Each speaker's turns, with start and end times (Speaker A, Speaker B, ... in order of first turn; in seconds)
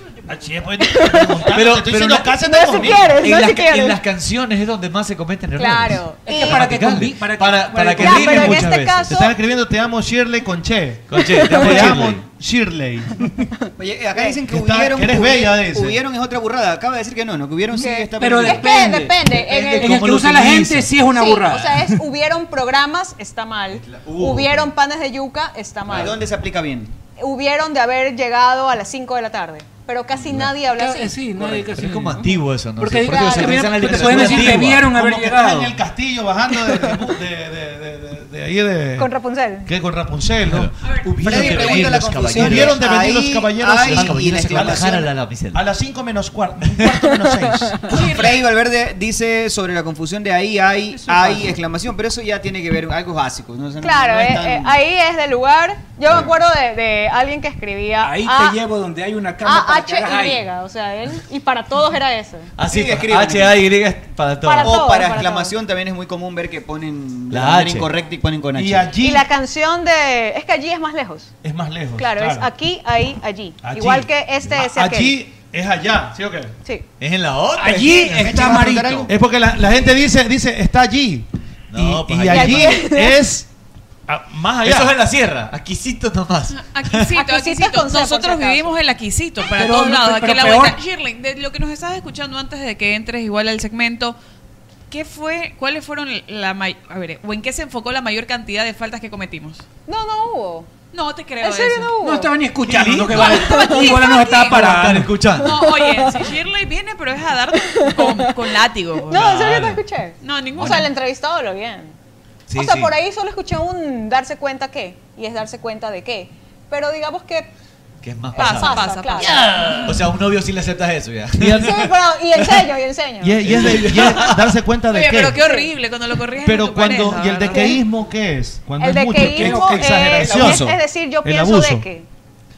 Speaker A: 0.3-3.3, 8.2-13.3, 14.5-16.0, 33.9-39.1, 39.7-40.7, 41.2-47.9, 68.5-69.3, 71.4-72.5, 73.6-76.5, 78.4-83.5, 84.1-84.9, 121.4-121.9, 123.2-125.4, 126.4-131.9
Speaker B: 0.8-1.6, 2.4-4.0, 5.6-6.7, 8.0-9.4, 11.4-12.0, 13.5-14.3, 17.7-20.0, 21.1-26.2, 27.2-31.2, 33.1-33.9, 36.5-37.0, 39.0-39.7, 47.1-48.1, 53.8-58.6, 59.4-62.5, 64.4-65.6, 69.0-71.3, 72.0-75.2, 82.3-83.2, 87.1-88.8, 99.9-100.7, 101.4-102.3, 103.4-104.3, 105.4-106.3, 107.5-108.6, 109.1-112.0, 112.5-117.5, 118.4-119.5, 121.5-123.9, 125.4-125.7, 127.5-127.8, 128.8-132.1
Speaker C: 1.5-2.4, 3.0-9.2, 11.1-12.2, 19.5-20.9, 23.8-24.7, 25.9-26.2, 30.1-30.6, 31.4-34.9, 40.5-42.9, 43.9-45.7, 62.6-64.8, 67.3-67.9, 77.0-78.3, 81.7-82.9, 84.6-87.1, 102.6-103.6, 104.5-105.6, 109.1-109.8, 110.6-110.9, 112.5-112.9, 118.0-121.9, 123.4-124.5
Speaker D: 6.2-8.6, 18.2-22.1, 30.6-35.8, 50.9-51.6, 58.0-60.4, 77.6-79.1, 89.5-90.8, 102.0-105.2, 129.2-129.9
Speaker E: 13.8-19.1, 25.9-27.0, 41.2-45.1, 47.9-54.8, 62.7-63.6, 64.6-68.9, 77.7-79.1, 130.2-130.8
Speaker F: 40.8-41.9, 47.9-48.5, 86.5-94.2, 94.9-99.6, 100.9-101.9, 103.1-104.7, 105.4-109.2, 110.2-110.9, 118.4-119.7, 124.9-127.8